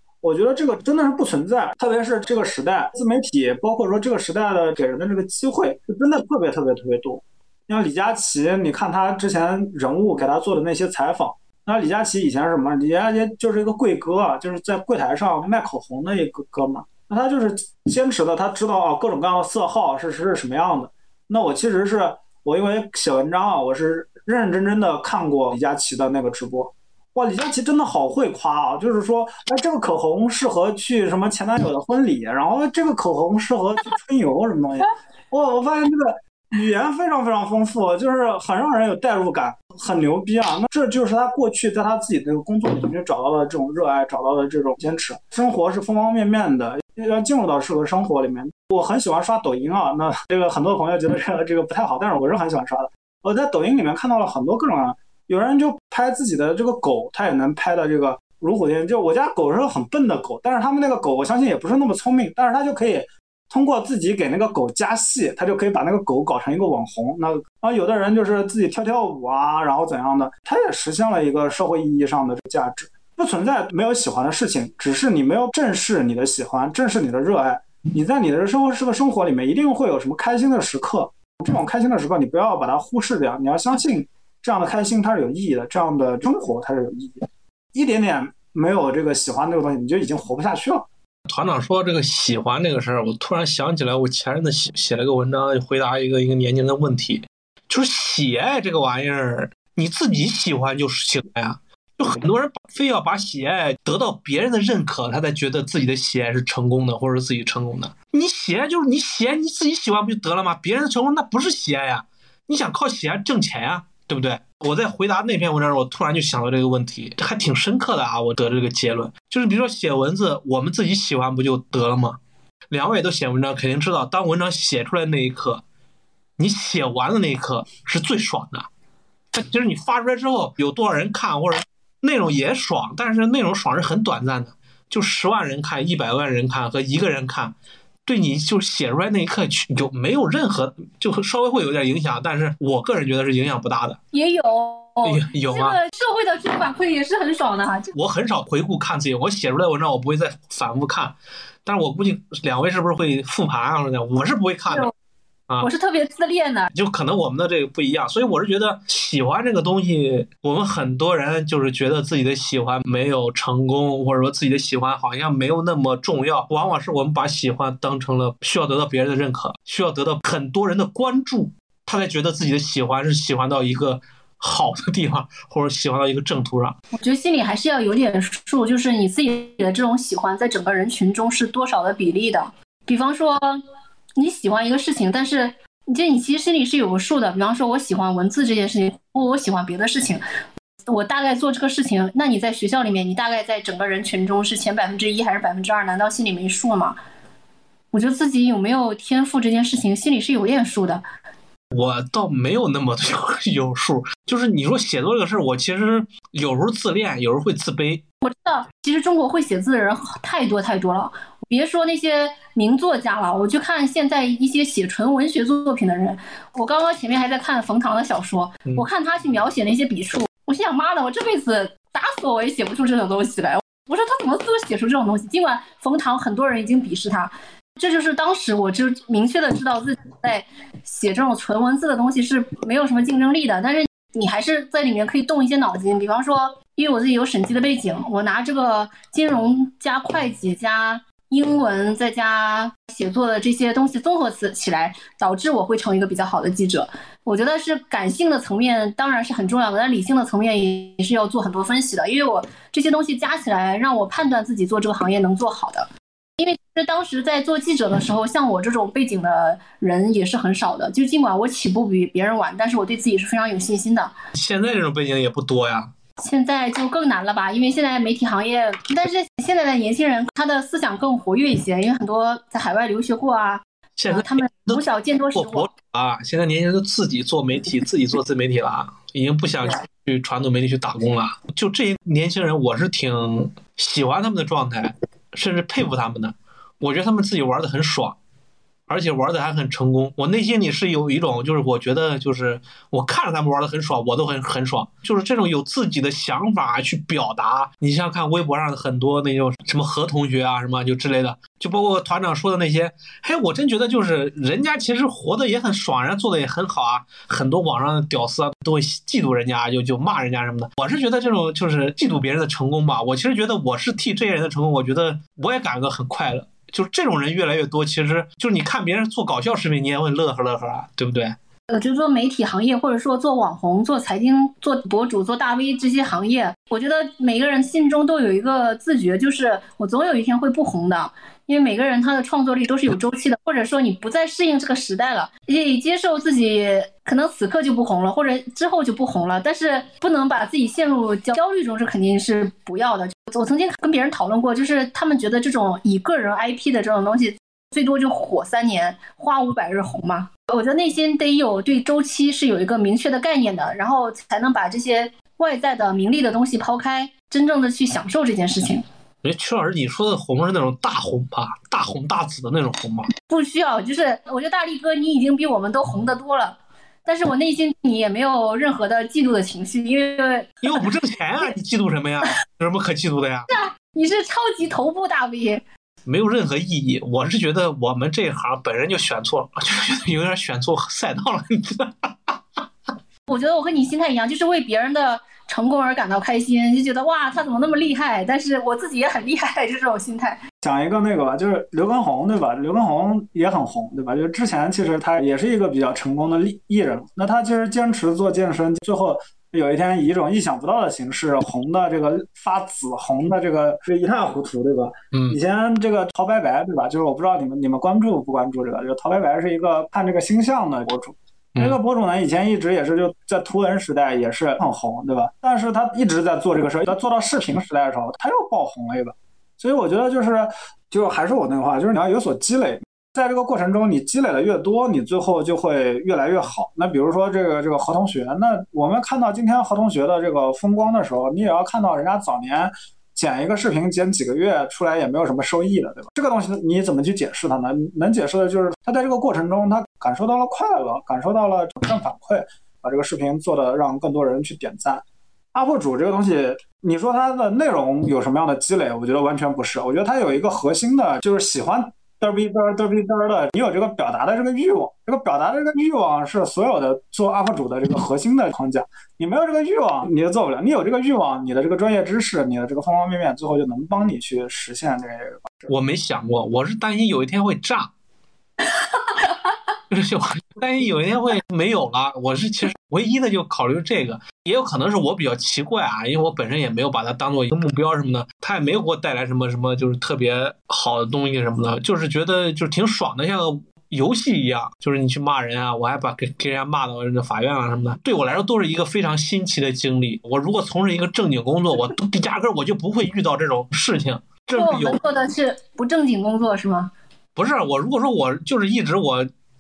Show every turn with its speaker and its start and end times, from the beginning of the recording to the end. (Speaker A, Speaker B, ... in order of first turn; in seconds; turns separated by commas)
Speaker A: 0.2-90.9, Speaker B: 91.3-122.2, Speaker B: 122.7-125.6, Speaker B: 126.4-128.7, Speaker B: 129.3-137.5, Speaker B: 138.1-144.0, Speaker C: 144.1-147.9, Speaker B: 145.1-145.8, Speaker B: 147.9-154.9, Speaker C: 155.6-156.7, Speaker B: 156.7-176.8, Speaker C: 176.9-183.6, Speaker C: 184.2-190.2, Speaker C: 190.9-197.0, Speaker C: 197.9-201.0, Speaker B: 201.7-208.0, Speaker C: 208.2-264.1, Speaker B: 264.3-265.9, Speaker C: 266.2-275.7, Speaker B: 274.0-288.2, Speaker B: 288.9-321.4, Speaker C: 321.7-358.8, Speaker B: 359.2-363.1, Speaker C: 363.3-370.9, Speaker B: 370.6-373.5, Speaker C: 373.5-375.6, Speaker B: 376.1-382.4, Speaker C: 383.3-390.4, Speaker A: 390.6-465.7, Speaker B: 465.7-467.9, Speaker B: 469.9-495.0, Speaker C: 494.6-496.9, Speaker B: 497.4-499.3